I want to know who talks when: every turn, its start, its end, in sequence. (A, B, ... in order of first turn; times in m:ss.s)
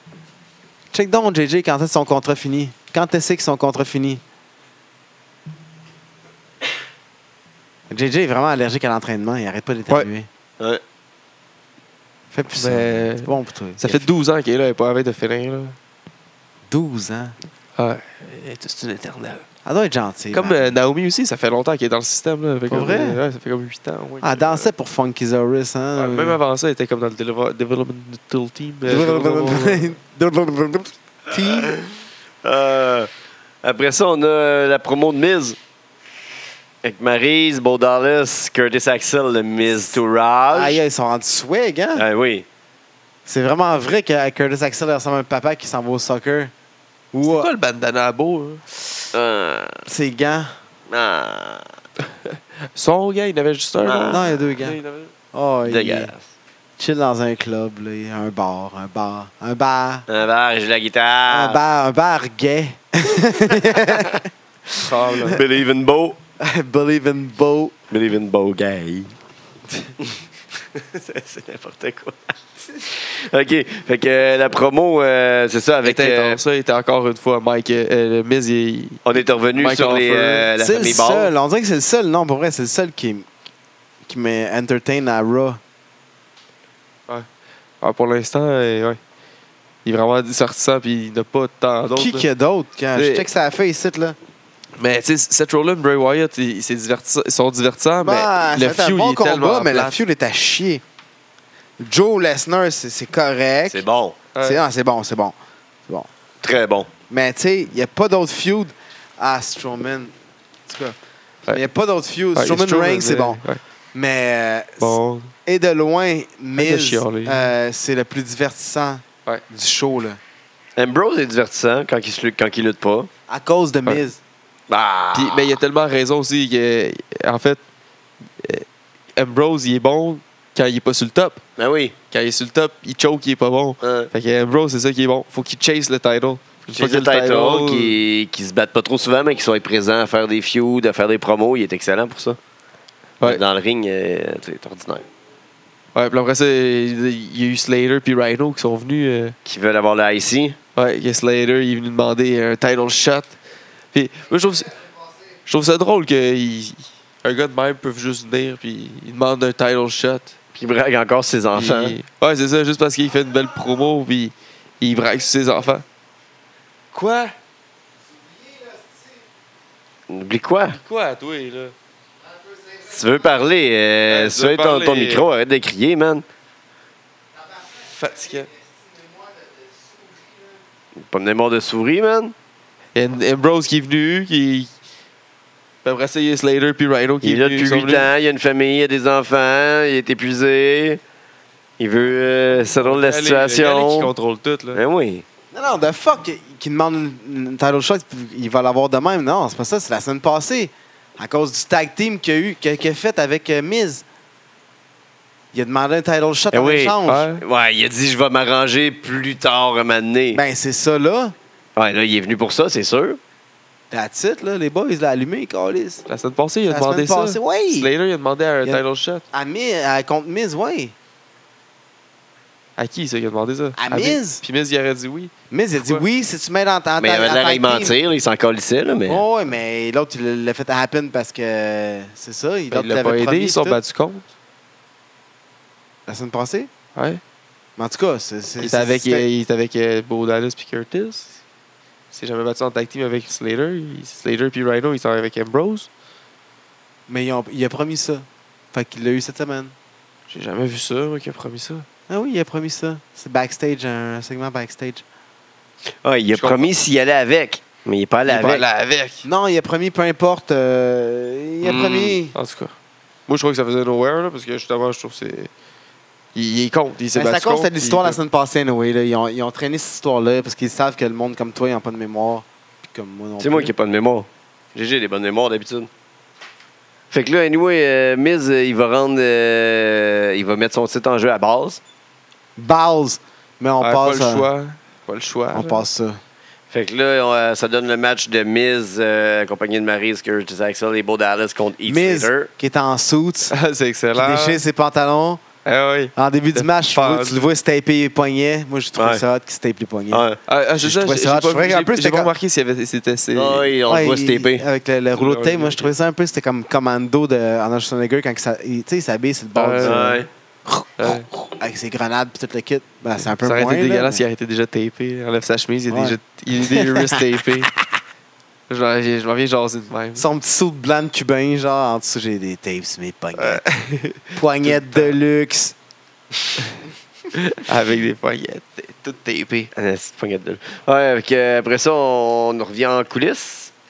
0:00.9-0:04.2 A
0:07.9-0:10.3 A
0:12.3-0:14.0 A
0:12.5-0:15.8 B
0:16.7-0:17.4 A
0:17.8-0:19.5 B
0:19.6-0:20.7 A
0:20.3-0:24.7 B
0:22.7-0:23.2 A
0:24.2-0:26.4 A
0:26.0-0:30.0 B
0:28.8-0:31.8 A
0:31.4-0:31.9 C
0:32.4-0:33.1 C
0:33.6-0:35.6 C
0:36.8-0:40.8 C
0:40.5-0:42.0 A
0:42.0-0:42.5 C
0:43.3-0:46.5 A
0:47.1-0:47.5 A
0:47.2-0:48.6 B
0:49.1-0:49.9 C
0:49.9-0:50.5 A
0:50.9-0:51.7 C
0:52.8-0:55.1 B
0:53.8-0:54.2 C
0:54.1-0:54.8 A
0:55.3-0:56.1 A
0:55.7-0:56.2 C
0:56.8-1:00.1 A
1:00.1-1:01.6 C
1:01.3-1:05.4 A
1:03.9-1:04.1 C
1:04.8-1:05.4 B
1:05.3-1:06.2 C
1:06.4-1:07.8 A
1:07.9-1:09.1 C
1:10.7-1:16.4 C
1:15.8-1:20.5 B
1:19.0-1:21.3 C
1:20.6-1:23.3 A
1:24.1-1:25.6 A
1:27.8-1:29.0 B
1:29.8-1:32.3 B
1:31.9-1:34.2 A
1:33.0-1:33.3 B
1:34.8-1:40.0 B
1:38.0-1:40.8 A
1:41.8-1:43.8 A
1:43.7-1:44.2 C
1:44.3-1:44.6 B
1:44.4-1:45.4 A
1:46.4-1:46.9 C
1:47.1-1:50.1 A
1:50.7-1:51.0 A
1:51.5-1:53.4 A
1:52.4-1:53.6 B
1:53.9-2:00.2 A
1:54.8-1:55.3 B
1:56.6-1:57.5 B
2:00.8-2:03.1 C
2:03.3-2:04.2 A
2:04.7-2:05.6 C
2:05.1-2:07.6 B
2:08.4-2:11.4 B
2:11.6-2:12.0 C
2:12.1-2:18.0 B
2:13.8-2:14.1 C
2:16.7-2:22.4 C
2:23.2-2:25.0 C
2:26.0-2:29.4 B
2:29.5-2:30.6 C
2:30.8-2:33.4 B
2:33.9-2:34.8 B
2:35.5-2:40.3 B
2:40.6-2:42.0 C
2:41.5-2:45.8 B
2:46.9-2:47.4 B
2:48.1-2:49.2 A
2:50.1-2:50.8 C
2:50.7-2:51.7 B
2:52.3-2:53.0 A
2:52.9-2:56.2 C
2:54.1-2:55.3 B
2:57.4-3:00.6 A
2:57.9-2:58.5 B
3:01.0-3:02.3 C
3:03.0-3:04.7 B
3:05.8-3:08.1 B
3:07.2-3:11.0 C
3:11.8-3:14.1 C
3:12.8-3:14.8 B
3:14.7-3:15.2 C
3:15.5-3:24.0 A
3:25.5-3:27.3 A
3:26.5-3:30.4 C
3:27.1-3:27.4 B
3:30.3-3:31.4 A
3:31.8-3:33.2 C
3:33.9-3:36.0 A
3:36.1-3:39.2 B
3:36.7-3:37.9 A
3:38.6-3:41.0 A
3:42.8-3:46.0 B
3:43.8-3:44.4 A
3:45.5-3:48.0 A
3:47.0-3:49.2 C
3:49.1-3:53.8 A
3:52.7-3:54.3 B
3:56.1-3:56.7 A
3:57.0-3:57.2 B
3:57.8-3:59.3 A
3:58.6-4:01.4 B
4:02.1-4:05.9 B
4:07.1-4:09.8 A
4:10.3-4:11.9 B
4:12.1-4:15.0 A
4:16.0-4:18.6 C
4:16.3-4:16.7 B
4:18.3-4:19.3 B
4:19.2-4:22.4 A
4:21.6-4:22.2 C
4:22.4-4:22.7 B
4:23.3-4:25.5 B
4:26.3-4:28.2 B
4:27.1-4:33.7 A
4:33.4-4:35.9 C
4:37.1-4:41.8 C
4:42.6-4:44.5 A
4:43.8-4:45.8 B
4:45.5-4:46.2 A
4:46.7-4:52.5 C
4:51.9-4:53.6 A
4:53.5-4:54.6 B
4:54.1-4:55.4 A
4:55.6-4:57.5 B
4:56.2-5:00.2 A
4:59.0-4:59.2 C
5:00.1-5:00.4 C
5:00.5-5:03.7 B
5:00.8-5:02.3 A
5:03.3-5:04.6 C
5:03.9-5:14.2 A
5:05.2-5:05.9 B
5:09.6-5:10.1 B
5:09.8-5:10.3 C
5:11.0-5:11.3 B
5:13.4-5:17.7 B
5:15.9-5:17.2 A
5:18.7-5:20.3 B
5:20.2-5:23.6 A
5:23.4-5:25.1 B
5:24.3-5:25.8 A
5:27.3-5:29.7 B
5:29.8-5:33.7 C